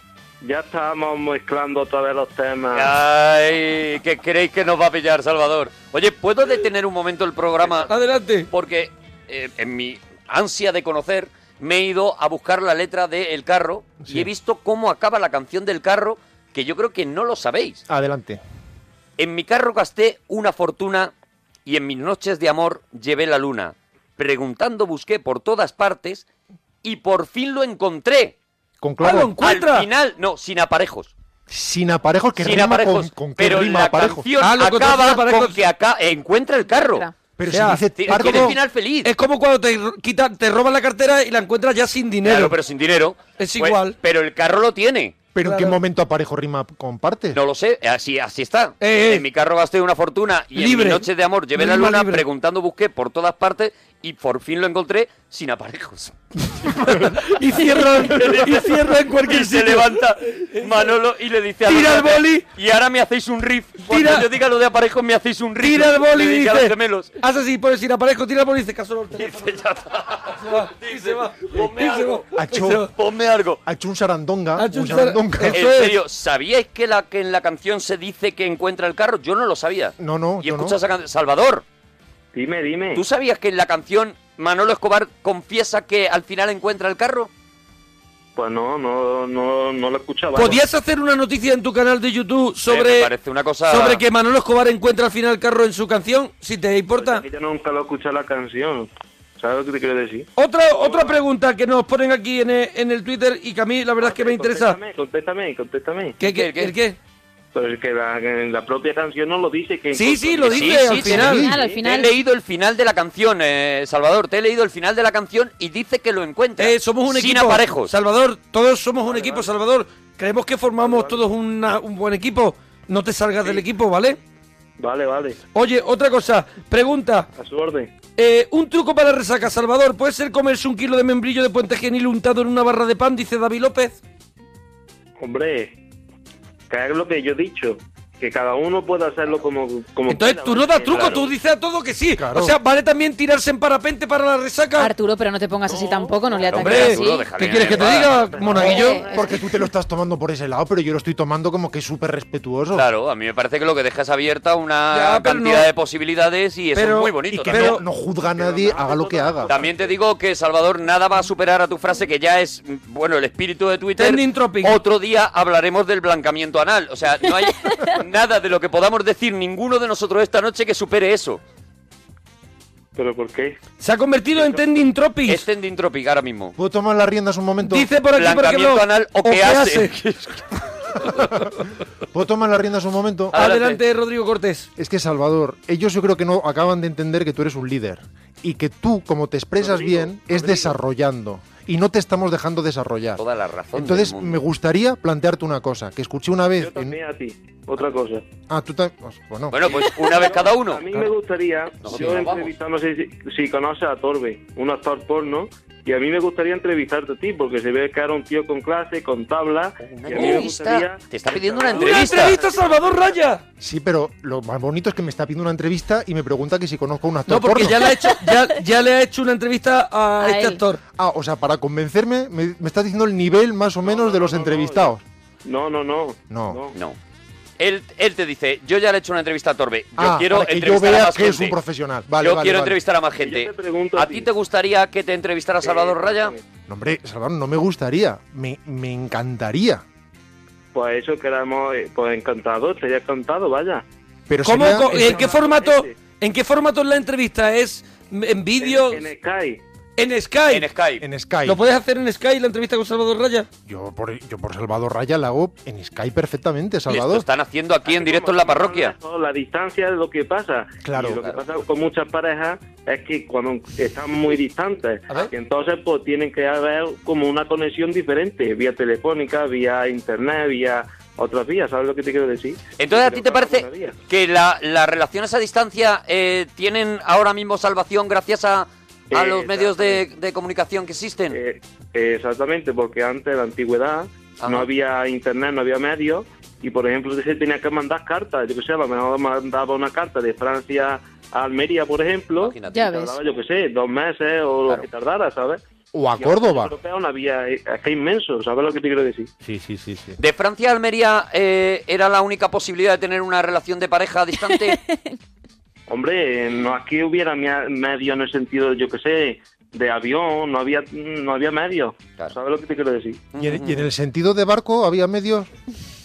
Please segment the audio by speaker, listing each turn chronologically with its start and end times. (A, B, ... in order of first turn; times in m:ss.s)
0:00.4-0:03.0 A
0:02.7-0:07.9 B
0:07.9-0:08.5 C
0:08.5-0:17.8 B
0:14.0-0:14.3 D
0:17.9-0:18.4 D
0:19.2-0:21.1 B
0:21.7-0:26.2 B
0:26.8-0:28.4 B
0:28.8-0:29.4 D
0:29.0-0:29.9 C
0:29.2-0:31.1 B
0:31.5-0:34.3 D
0:32.4-0:37.1 B
0:34.4-0:35.6 C
0:36.7-0:37.1 E
0:37.4-0:38.6 D
0:37.5-0:42.6 C
0:37.9-0:39.1 B
0:42.2-0:45.2 B
0:43.4-0:44.0 C
0:45.4-0:47.4 D
0:45.4-0:45.8 C
0:47.3-0:56.2 B
0:48.8-0:49.2 C
0:50.6-0:52.2 C
0:56.7-1:00.9 C
0:57.9-1:07.1 B
1:01.7-1:02.5 C
1:03.9-1:04.3 C
1:05.6-1:09.6 C
1:09.2-1:12.3 B
1:10.4-1:12.9 C
1:12.3-1:12.9 D
1:12.9-1:13.6 B
1:13.6-1:15.6 D
1:14.6-1:16.0 C
1:15.5-1:21.6 B
1:20.0-1:20.8 D
1:22.3-1:23.0 A
1:23.0-1:27.3 B
1:28.4-1:30.6 A
1:30.4-1:33.1 C
1:32.7-1:34.0 B
1:33.7-1:37.2 C
1:37.0-1:40.3 A
1:40.4-1:44.8 C
1:40.8-1:41.2 A
1:44.0-1:46.2 A
1:46.2-1:47.0 C
1:46.2-1:46.8 B
1:47.5-1:50.8 A
1:49.9-1:51.5 C
1:50.4-1:57.9 B
1:51.1-1:52.1 E
1:51.2-1:51.6 D
1:56.6-2:04.2 C
1:59.1-1:59.5 A
2:00.8-2:01.2 A
2:04.8-2:05.4 A
2:05.6-2:07.3 C
2:07.4-2:07.9 A
2:08.2-2:14.0 C
2:15.2-2:15.8 A
2:16.7-2:21.3 A
2:20.1-2:24.9 C
2:22.1-2:22.6 D
2:24.8-2:27.3 E
2:25.7-2:26.5 A
2:26.5-2:28.4 B
2:26.6-2:29.1 C
2:27.6-2:29.4 A
2:28.5-2:32.9 D
2:28.6-2:29.4 E
2:32.7-2:37.8 B
2:34.9-2:35.7 C
2:36.8-2:37.8 C
2:37.2-2:39.6 D
2:38.2-2:39.7 A
2:39.5-2:51.4 B
2:44.0-2:44.8 C
2:53.0-2:53.6 A
2:53.8-2:55.5 C
2:55.3-2:56.6 B
2:56.6-2:57.9 D
2:57.6-3:00.0 C
2:58.1-3:00.4 B
3:01.1-3:01.4 C
3:02.1-3:03.3 D
3:03.3-3:03.8 B
3:03.3-3:04.7 C
3:04.8-3:17.0 D
3:09.6-3:10.8 A
3:13.2-3:14.4 B
3:16.6-3:18.3 A
3:18.5-3:19.6 D
3:19.5-3:21.1 B
3:19.8-3:33.1 A
3:21.8-3:22.5 B
3:29.8-3:32.4 B
3:31.7-3:33.4 C
3:33.6-3:37.9 D
3:37.3-3:40.8 C
3:38.0-3:38.4 E
3:40.2-3:40.6 E
3:41.0-3:45.0 D
3:43.8-3:46.8 A
3:46.3-3:46.6 D
3:47.6-3:51.6 B
3:50.0-3:52.8 D
3:52.2-3:56.3 B
3:53.2-3:54.3 A
3:55.6-3:56.4 A
3:56.7-3:59.8 D
4:00.7-4:03.8 A
4:04.3-4:05.3 D
4:04.4-4:09.1 C
4:04.8-4:06.0 A
4:08.6-4:09.6 A
4:10.0-4:10.7 C
4:10.5-4:11.1 B
4:11.0-4:11.6 D
4:11.4-4:13.5 C
4:13.7-4:17.3 D
4:16.9-4:19.0 B
4:17.9-4:34.0 A
4:20.8-4:21.3 D
4:32.8-4:41.4 B
4:39.1-4:40.0 A
4:41.3-4:55.6 A
4:44.4-4:44.7 B
4:52.4-4:52.9 B
4:52.7-4:53.2 E
4:55.9-4:56.7 D
4:56.2-4:59.3 A
4:59.4-5:00.2 D
5:00.2-5:04.8 B
5:04.4-5:05.2 E
5:05.9-5:13.3 A
5:13.3-5:13.9 B
5:13.4-5:15.5 D